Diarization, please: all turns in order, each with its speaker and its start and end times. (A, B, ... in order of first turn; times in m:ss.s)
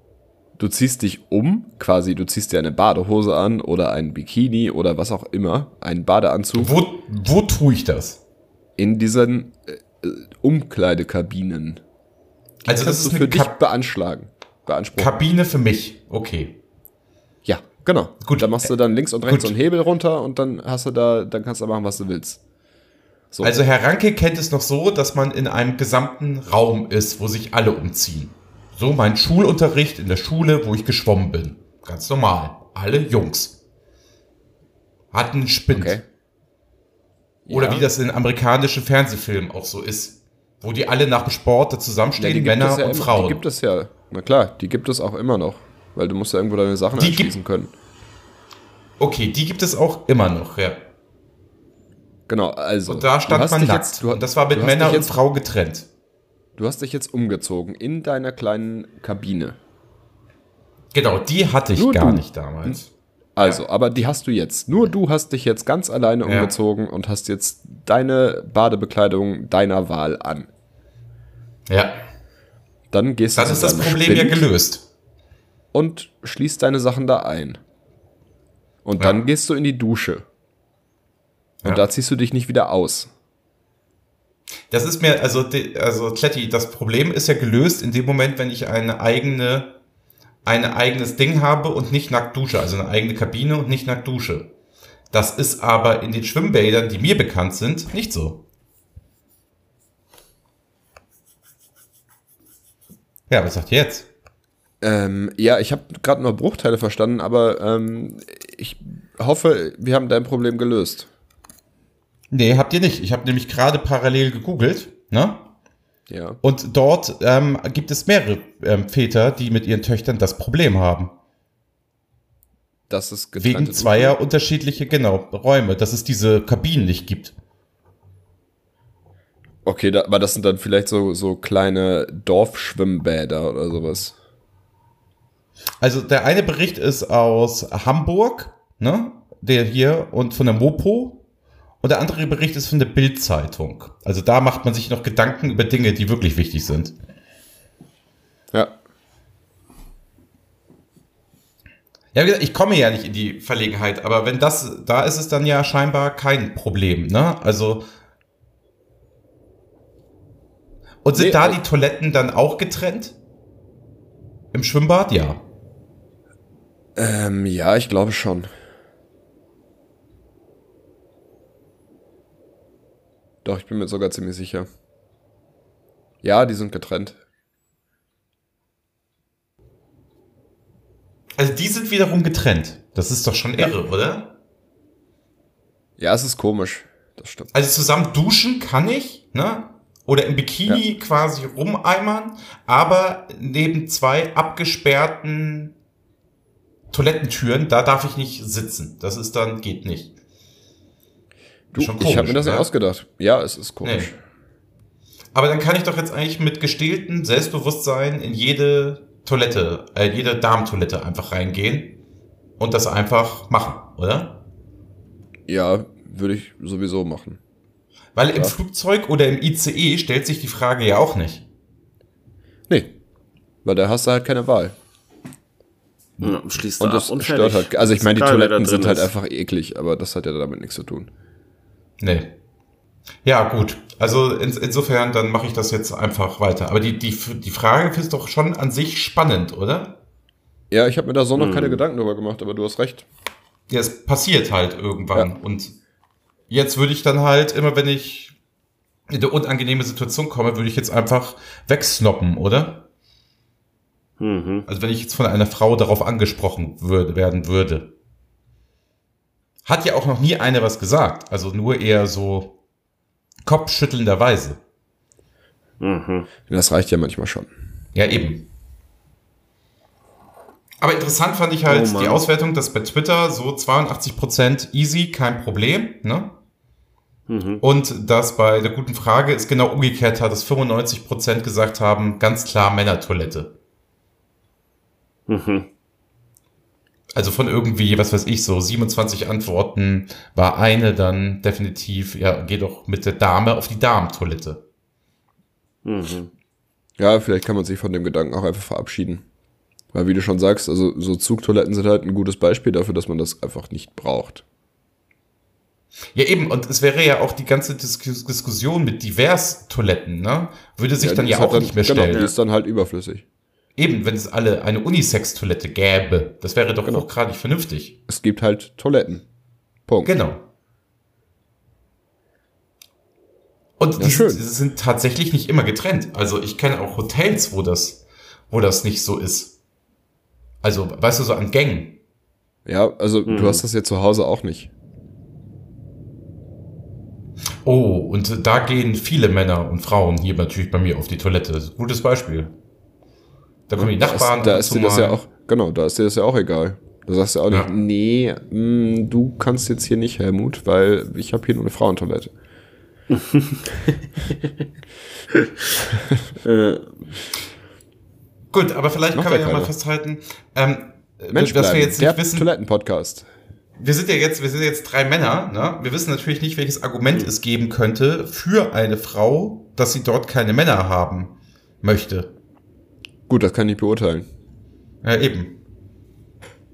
0:00.6-0:06.8 A
0:06.6-0:08.2 B
0:08.8-0:11.8 A
0:12.6-0:15.1 A
0:12.6-0:13.5 B
0:15.0-0:16.6 B
0:17.4-0:22.4 A
0:18.2-0:18.6 B
0:19.3-0:19.5 B
0:23.3-0:23.6 A
0:23.4-0:33.6 B
0:35.1-0:36.0 B
0:35.7-0:36.0 A
0:37.5-0:37.9 A
0:37.5-0:43.4 B
0:42.2-0:47.7 A
0:47.0-0:47.3 B
0:49.0-0:50.8 B
0:52.3-0:55.2 A
0:52.9-0:55.9 B
0:56.6-0:59.6 A
1:00.9-1:02.9 B
1:01.8-1:02.8 A
1:03.4-1:10.5 A
1:06.2-1:06.5 B
1:11.7-1:12.0 B
1:12.9-1:14.4 A
1:13.4-1:14.8 B
1:15.7-1:17.6 A
1:18.8-1:20.2 A
1:21.6-1:23.1 A
1:24.7-1:29.7 B
1:30.4-1:34.5 B
1:35.1-1:38.4 B
1:43.3-1:44.1 B
1:44.8-1:51.1 A
1:52.3-1:55.5 B
1:56.1-1:56.4 A
1:56.4-2:01.1 B
2:02.9-2:04.2 A
2:03.4-2:07.4 B
2:09.6-2:14.2 A
2:15.8-2:21.2 B
2:21.8-2:27.0 B
2:32.1-2:37.9 B
2:41.0-2:43.2 B
2:41.2-2:41.6 A
2:44.5-2:45.4 B
2:47.0-2:48.5 A
2:53.4-2:54.7 A
2:56.2-2:57.2 A
3:01.4-3:04.3 B
3:06.0-3:07.5 A
3:07.5-3:15.7 B
3:16.9-3:20.1 B
3:21.7-3:24.2 A
3:21.8-3:22.7 B
3:23.8-3:24.1 B
3:25.3-3:32.0 B
3:32.6-3:34.4 B
3:35.5-3:37.4 A
3:38.2-3:41.4 B
3:42.7-3:42.9 A
3:43.6-3:44.8 A
3:46.2-3:49.1 C
3:46.2-3:51.1 A
3:52.0-3:52.3 B
3:53.2-4:00.0 B
4:00.7-4:03.1 A
4:01.4-4:01.8 C
4:03.7-4:05.8 B
4:06.5-4:08.4 B
4:09.1-4:12.8 B
4:14.2-4:14.7 C
4:14.7-4:17.9 B
4:19.6-4:22.6 B
4:23.5-4:24.6 B
4:25.8-4:26.3 C
4:26.5-4:27.5 A
4:28.0-4:28.5 B
4:30.8-4:36.4 B
4:31.7-4:32.2 C
4:37.3-4:37.6 C
4:37.6-4:43.5 B
4:45.3-4:45.7 C
4:47.2-4:54.6 B
4:55.8-4:56.3 C
4:57.0-4:59.2 A
4:59.9-5:04.4 A
5:06.1-5:12.3 B
5:11.0-5:13.2 A
5:13.8-5:18.0 B
5:18.1-5:19.2 A
5:19.9-5:20.2 A
5:20.0-5:20.4 B
5:23.8-5:29.6 B
5:24.0-5:24.4 A
5:30.6-5:32.0 B
5:32.7-5:34.7 A
5:33.3-5:33.6 C
5:37.6-5:42.5 B
5:43.7-5:45.2 B
5:43.8-5:52.3 A
5:53.1-5:54.4 C
5:56.4-5:57.1 C
5:58.5-6:02.5 B
5:59.1-5:59.7 A
6:01.3-6:03.3 A
6:03.8-6:12.3 B
6:13.3-6:14.3 A
6:15.0-6:15.6 B